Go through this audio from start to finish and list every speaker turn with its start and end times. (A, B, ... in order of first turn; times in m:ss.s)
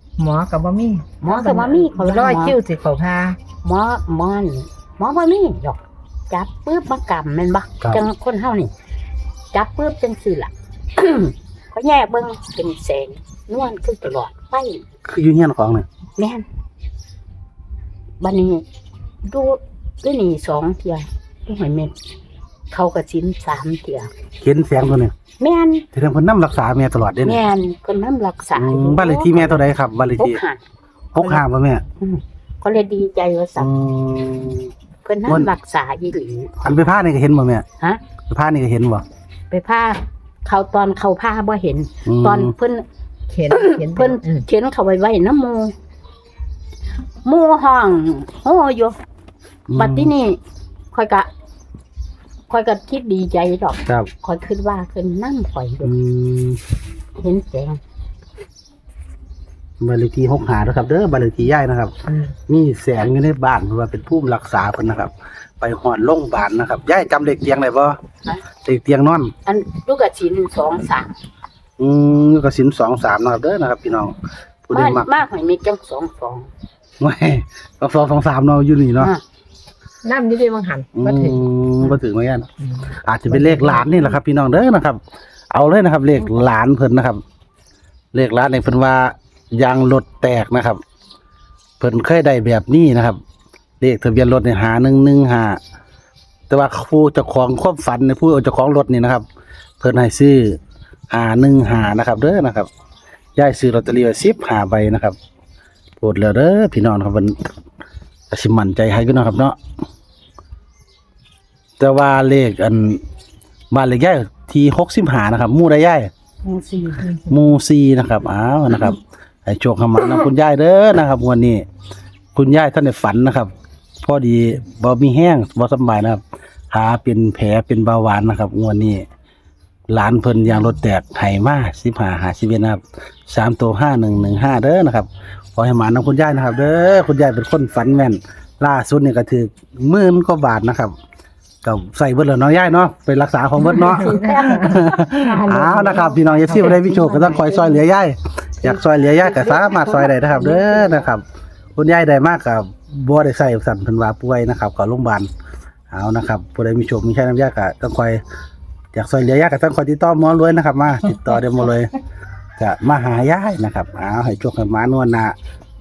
0:00.2-0:03.4 A
0:01.2-0:02.6 B
0:03.6-0:08.7 B
0:09.5-0:14.8 B
0:15.0-0:15.8 C
0:16.2-0:16.4 B
0:18.2-0:18.6 B
0:19.2-0:21.9 B
0:22.7-0:24.1 B
0:24.4-0:25.1 C
0:25.4-0:25.8 B
0:25.9-0:27.4 C
0:27.2-0:29.6 B
0:28.6-0:30.4 C
0:30.2-0:30.6 B
0:31.1-0:31.8 C
0:32.0-0:33.7 B
0:33.6-0:34.7 C
0:35.0-0:36.5 B
0:36.6-0:37.6 C
0:38.3-0:39.0 C
0:39.5-0:42.8 B
0:42.0-0:42.5 C
0:43.3-0:44.4 A
0:43.5-0:45.7 B
0:47.2-0:48.9 B
0:49.7-0:50.1 C
0:49.8-0:50.4 B
0:50.9-0:51.3 B
0:52.5-0:55.9 B
0:55.8-0:56.6 C
0:57.2-0:57.8 B
0:59.8-1:01.9 C
1:02.1-1:02.3 A
1:02.5-1:08.0 C
1:08.6-1:09.3 C
1:09.4-1:11.1 B
1:11.8-1:14.1 C
1:14.7-1:15.1 C
1:14.7-1:16.5 B
1:17.0-1:19.1 C
1:20.0-1:21.4 A
1:20.9-1:25.0 C
1:23.3-1:24.0 A
1:25.5-1:27.2 C
1:28.1-1:30.8 C
1:31.8-1:33.2 C
1:33.8-1:35.6 C
1:36.5-1:39.2 C
1:39.8-1:40.6 C
1:41.1-1:42.7 C
1:43.4-1:45.2 C
1:46.0-1:47.4 C
1:48.3-1:49.6 C
1:51.8-1:53.0 C
1:53.7-1:56.1 C
1:56.4-1:57.2 B
1:57.2-2:01.6 C
2:02.3-2:03.5 C
2:04.0-2:06.2 C
2:06.7-2:09.0 C
2:09.9-2:20.9 C
2:21.6-2:31.2 C
2:23.7-2:26.8 B
2:23.9-2:27.8 A
2:28.6-2:31.1 B
2:31.8-2:35.3 C
2:35.9-2:38.2 C
2:38.9-2:41.9 C
2:42.6-2:45.3 C